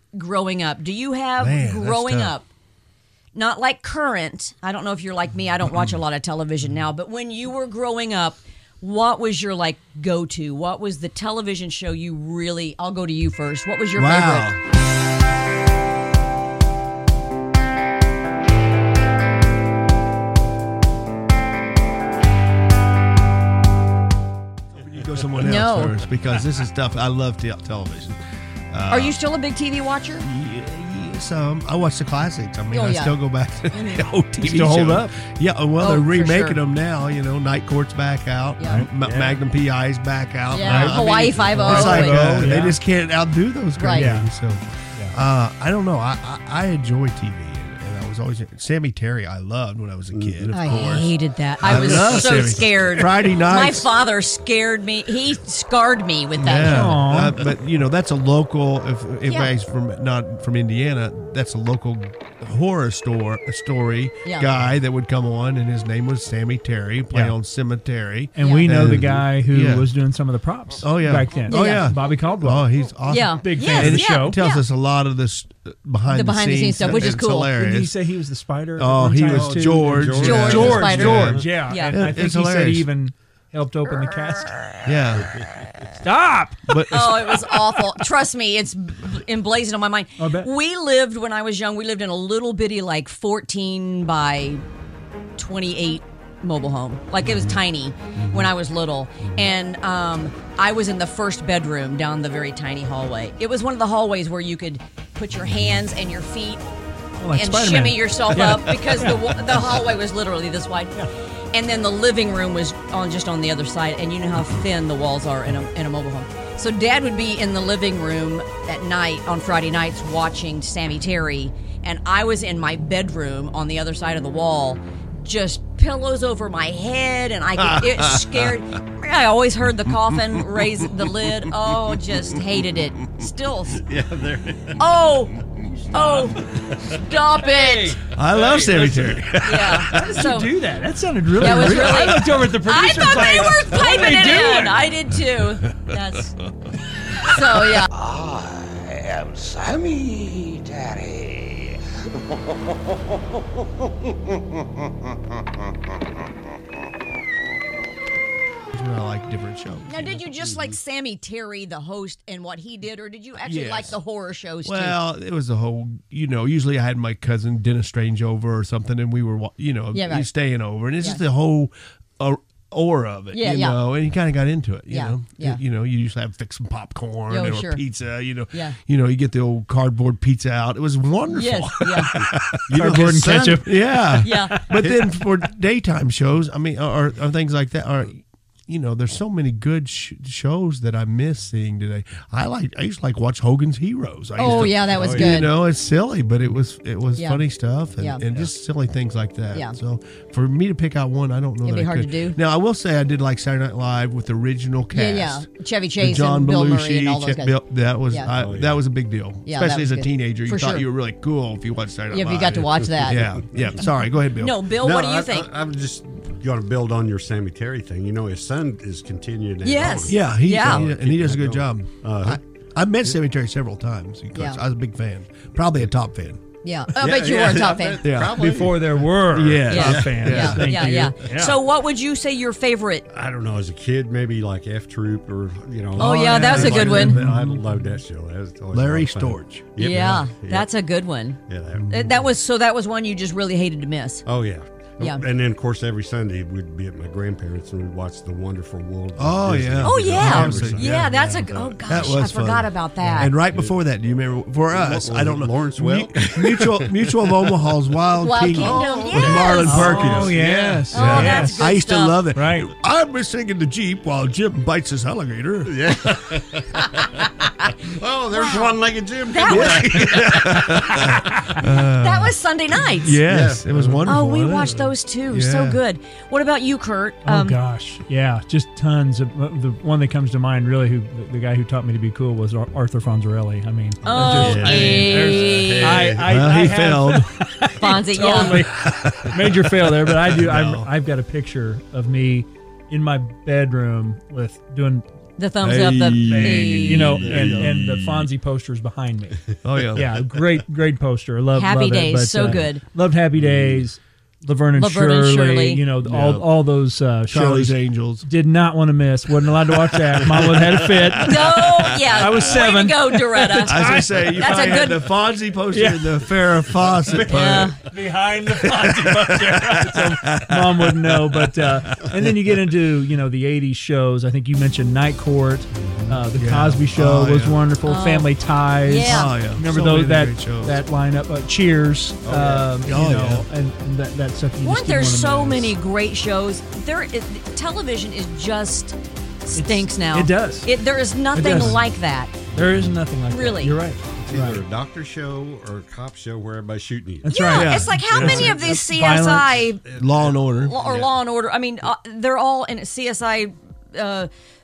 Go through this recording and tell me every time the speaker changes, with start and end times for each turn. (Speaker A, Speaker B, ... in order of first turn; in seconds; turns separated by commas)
Speaker A: 0.1-2.5, Speaker B: 1.4-2.4, Speaker A: 3.3-14.5, Speaker B: 13.9-14.6, Speaker B: 24.7-28.2, Speaker A: 25.4-26.0, Speaker B: 28.7-29.2, Speaker A: 28.9-30.3, Speaker B: 30.2-53.9, Speaker A: 32.7-33.1, Speaker A: 33.8-34.0, Speaker C: 34.4-35.2, Speaker A: 35.8-36.6, Speaker A: 38.6-38.8, Speaker D: 39.0-39.4, Speaker A: 40.5-42.6, Speaker C: 40.6-42.8, Speaker A: 43.8-44.1, Speaker C: 43.9-44.3, Speaker D: 50.1-50.8, Speaker A: 50.5-57.0, Speaker D: 51.7-52.4, Speaker B: 56.4-69.9, Speaker C: 56.6-57.4, Speaker A: 59.2-59.5, Speaker A: 64.2-64.5, Speaker C: 67.1-67.3, Speaker C: 68.3-72.7, Speaker A: 68.4-68.7, Speaker B: 70.8-78.0, Speaker A: 71.5-71.9, Speaker A: 73.1-74.6, Speaker C: 73.3-74.4, Speaker A: 76.1-77.5, Speaker C: 77.0-84.6, Speaker B: 78.8-82.9, Speaker D: 79.3-81.5, Speaker A: 80.2-82.0, Speaker B: 84.8-85.4, Speaker C: 86.0-86.8, Speaker B: 86.7-87.4, Speaker A: 86.9-94.6, Speaker C: 90.2-90.5, Speaker A: 95.4-106.6, Speaker B: 97.3-97.5, Speaker B: 98.1-98.5, Speaker C: 107.2-109.3, Speaker A: 107.3-111.0, Speaker A: 111.5-133.9, Speaker B: 127.6-128.5, Speaker D: 133.8-134.8, Speaker A: 134.8-138.0, Speaker C: 135.9-136.3, Speaker C: 137.4-139.2, Speaker B: 138.1-140.1, Speaker A: 139.4-140.5, Speaker C: 139.8-144.8, Speaker A: 141.3-146.3, Speaker B: 141.6-142.3, Speaker A: 147.2-147.9, Speaker E: 148.0-148.6, Speaker E: 149.2-151.4, Speaker B: 158.7-160.1, Speaker A: 159.9-165.0, Speaker B: 163.4-164.0, Speaker B: 164.6-205.5, Speaker A: 169.9-170.3, Speaker A: 173.3-173.8, Speaker A: 174.9-175.6, Speaker A: 177.3-177.8, Speaker A: 181.3-182.2, Speaker D: 182.2-183.6, Speaker C: 182.7-184.6, Speaker A: 184.2-184.7, Speaker A: 194.4-195.5, Speaker D: 194.5-195.4, Speaker A: 197.2-197.4, Speaker A: 201.6-202.4, Speaker A: 204.9-207.6, Speaker B: 206.0-214.7, Speaker D: 208.3-208.8, Speaker A: 209.4-210.8, Speaker A: 212.1-213.3, Speaker A: 214.4-215.5, Speaker D: 214.8-222.4, Speaker A: 219.6-220.8, Speaker B: 220.1-226.4, Speaker A: 224.3-224.6, Speaker A: 226.6-228.1, Speaker D: 227.0-229.0, Speaker B: 228.0-228.4, Speaker C: 228.2-231.6, Speaker B: 229.3-231.0, Speaker A: 229.7-233.1, Speaker D: 233.1-240.7, Speaker B: 235.9-237.6, Speaker A: 236.0-237.2, Speaker C: 236.3-237.5, Speaker B: 238.7-239.7, Speaker A: 239.8-244.2, Speaker D: 241.5-242.2, Speaker D: 244.2-252.2, Speaker A: 245.0-245.2, Speaker B: 249.2-265.9, Speaker A: 249.8-253.3, Speaker D: 254.7-257.2, Speaker A: 258.2-260.4, Speaker D: 258.5-260.8, Speaker C: 259.6-261.6, Speaker A: 260.9-262.2, Speaker C: 262.3-262.7, Speaker D: 265.6-267.2, Speaker D: 267.9-271.0, Speaker A: 268.3-271.1, Speaker B: 269.4-272.4, Speaker C: 271.2-271.6, Speaker A: 271.9-273.2, Speaker B: 273.0-275.8, Speaker D: 273.2-274.2, Speaker A: 274.1-277.6, Speaker C: 277.2-295.1, Speaker A: 284.0-286.1, Speaker D: 284.1-286.4, Speaker B: 284.2-285.0, Speaker B: 286.2-287.3, Speaker A: 287.8-288.7, Speaker B: 288.3-290.9, Speaker A: 295.4-297.3, Speaker B: 295.6-298.3, Speaker C: 296.2-314.8, Speaker D: 297.1-297.8, Speaker B: 299.6-300.2, Speaker A: 301.5-302.8, Speaker D: 303.4-303.8, Speaker A: 304.7-305.8, Speaker B: 306.1-306.4, Speaker B: 307.3-308.3, Speaker B: 310.3-312.4, Speaker A: 311.2-315.2, Speaker B: 313.6-317.8, Speaker C: 315.7-316.3, Speaker C: 317.1-335.7, Speaker A: 317.3-317.8, Speaker B: 318.6-322.5, Speaker D: 325.8-326.1, Speaker B: 326.3-327.6, Speaker A: 327.8-328.3, Speaker A: 328.8-329.4, Speaker B: 329.0-330.8, Speaker D: 332.3-332.6, Speaker B: 332.3-333.5, Speaker A: 334.6-338.9, Speaker A: 339.5-342.4, Speaker C: 339.5-340.7, Speaker C: 341.3-341.8, Speaker C: 342.5-344.6, Speaker A: 343.3-343.8, Speaker D: 344.3-347.6, Speaker C: 347.2-349.6, Speaker A: 347.3-349.9, Speaker B: 347.5-348.4, Speaker D: 348.2-348.6, Speaker D: 349.9-351.1, Speaker B: 349.9-350.8, Speaker A: 350.5-354.3